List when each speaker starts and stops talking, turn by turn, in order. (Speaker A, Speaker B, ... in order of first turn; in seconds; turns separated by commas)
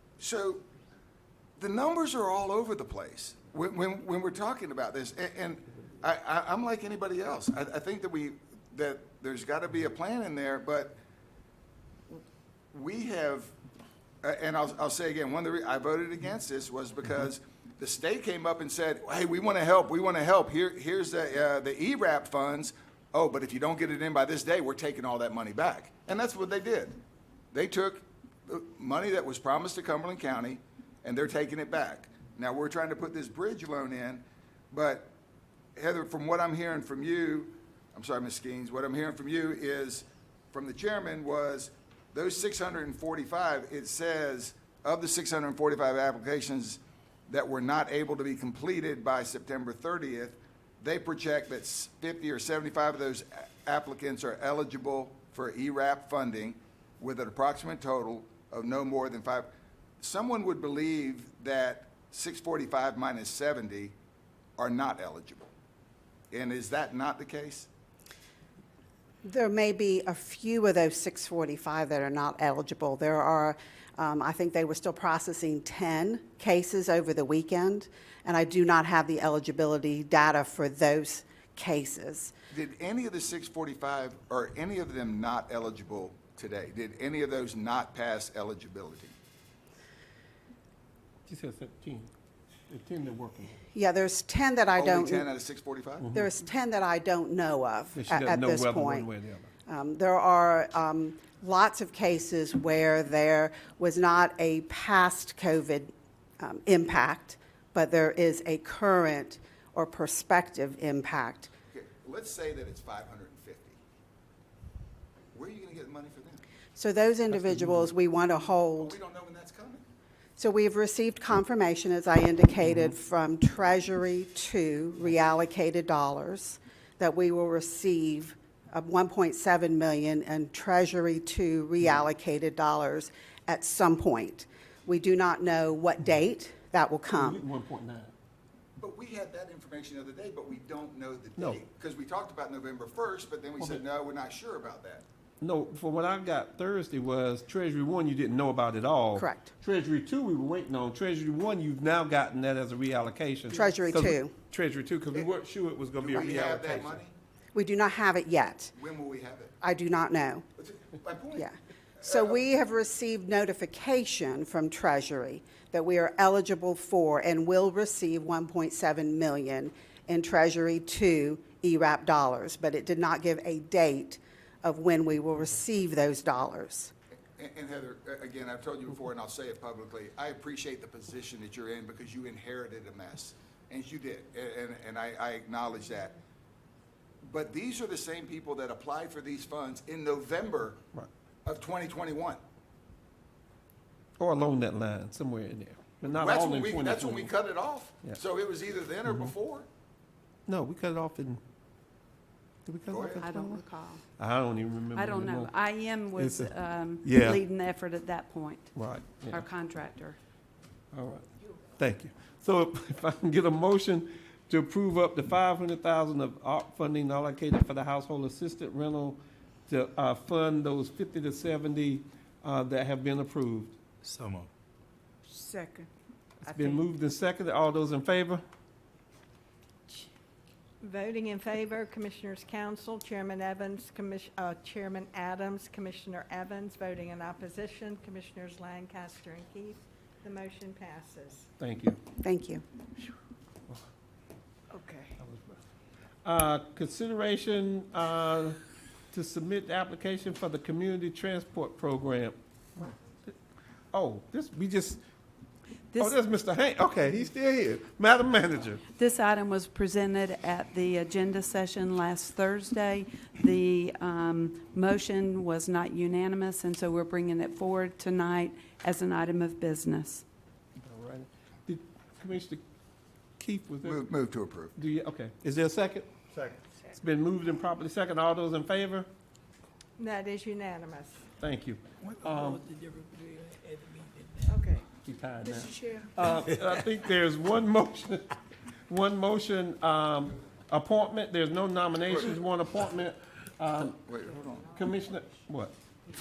Speaker A: 0.2-0.6, Speaker A: 1.6-11.0, Speaker A: 12.1-13.5, Speaker A: 14.2-27.0, Speaker A: 27.5-35.1, Speaker A: 35.8-64.0, Speaker A: 64.6-65.5, Speaker A: 66.3-67.7, Speaker B: 69.2-82.3, Speaker A: 82.5-89.1, Speaker C: 91.2-92.1, Speaker C: 92.7-93.6, Speaker B: 93.7-95.3, Speaker A: 94.8-96.1, Speaker B: 96.1-99.1, Speaker C: 98.0-99.5, Speaker B: 99.7-111.5, Speaker A: 111.7-113.8, Speaker A: 115.3-116.4, Speaker B: 116.8-119.0, Speaker C: 117.5-117.8, Speaker A: 118.8-119.8, Speaker B: 120.4-137.4, Speaker C: 137.1-138.1, Speaker A: 138.8-145.0, Speaker C: 145.4-157.0, Speaker B: 149.2-149.5, Speaker B: 153.5-154.3, Speaker A: 156.0-157.1, Speaker B: 157.5-158.7, Speaker A: 158.8-159.5, Speaker B: 159.6-160.5, Speaker A: 160.6-161.5, Speaker B: 161.4-176.9, Speaker A: 177.4-186.2, Speaker A: 187.2-190.8, Speaker A: 191.4-192.4, Speaker C: 194.2-197.3, Speaker A: 196.0-199.7, Speaker C: 200.5-201.4, Speaker C: 202.7-203.6, Speaker A: 202.9-203.3, Speaker D: 203.1-204.0, Speaker C: 204.2-205.5, Speaker D: 204.9-208.7, Speaker C: 206.2-207.4, Speaker C: 208.8-209.5, Speaker D: 209.2-210.2, Speaker C: 210.9-211.2, Speaker C: 211.8-223.8, Speaker E: 224.0-224.5, Speaker C: 226.4-228.4, Speaker F: 230.8-241.5, Speaker C: 241.6-242.0, Speaker B: 242.2-242.6, Speaker F: 244.7-245.1, Speaker C: 246.2-248.6, Speaker C: 249.1-252.9, Speaker C: 253.9-255.0, Speaker C: 256.0-258.8, Speaker D: 258.9-270.2, Speaker C: 270.8-272.6, Speaker C: 273.4-274.0, Speaker A: 273.8-274.7, Speaker C: 274.8-276.1, Speaker C: 276.9-279.1, Speaker F: 280.0-281.2, Speaker C: 281.4-282.6, Speaker E: 282.4-283.9, Speaker F: 284.4-284.9, Speaker C: 285.0-288.3, Speaker C: 288.9-294.0, Speaker A: 294.0-294.8, Speaker C: 294.7-295.7